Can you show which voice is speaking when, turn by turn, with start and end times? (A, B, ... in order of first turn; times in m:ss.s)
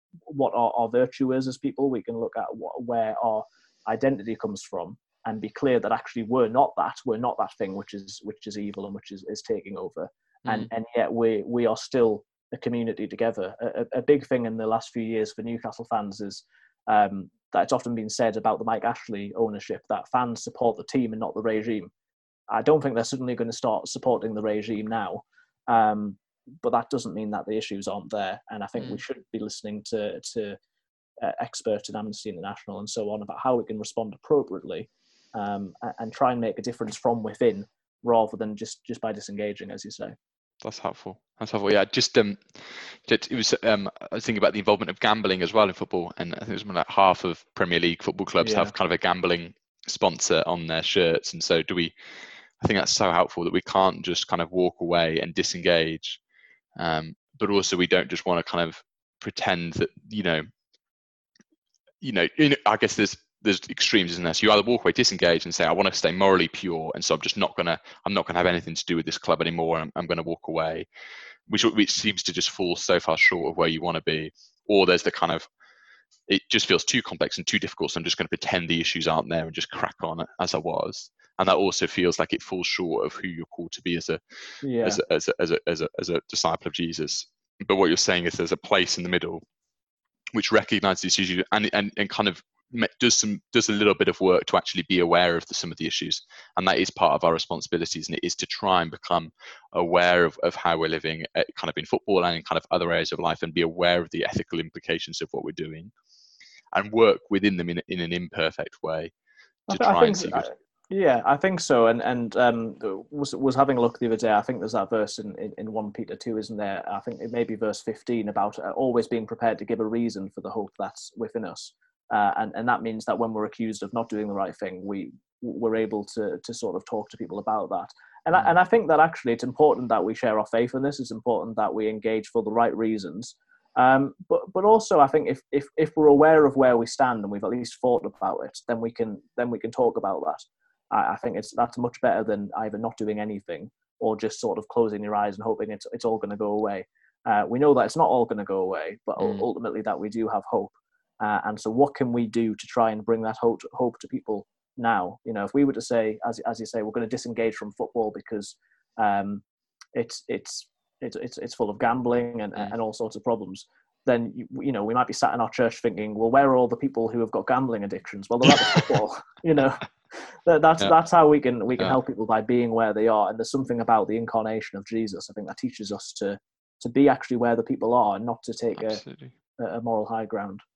0:00.3-0:21.9 A
0:22.5-0:30.6 A
0:31.2-0:40.1 A
0:40.6-0:51.9 B
0:48.4-0:48.7 A
0:52.6-0:56.2 B
0:56.8-1:00.5 B
1:02.0-1:10.9 B
1:11.5-1:15.5 B
1:16.3-1:24.2 B
1:24.6-1:25.0 A
1:24.8-1:29.4 B
1:30.3-1:45.9 B
1:46.7-1:49.1 B
1:49.7-1:50.5 B
1:49.7-2:59.0 A
2:29.2-2:29.4 B
2:58.8-2:59.3 B
2:59.6-3:00.6 A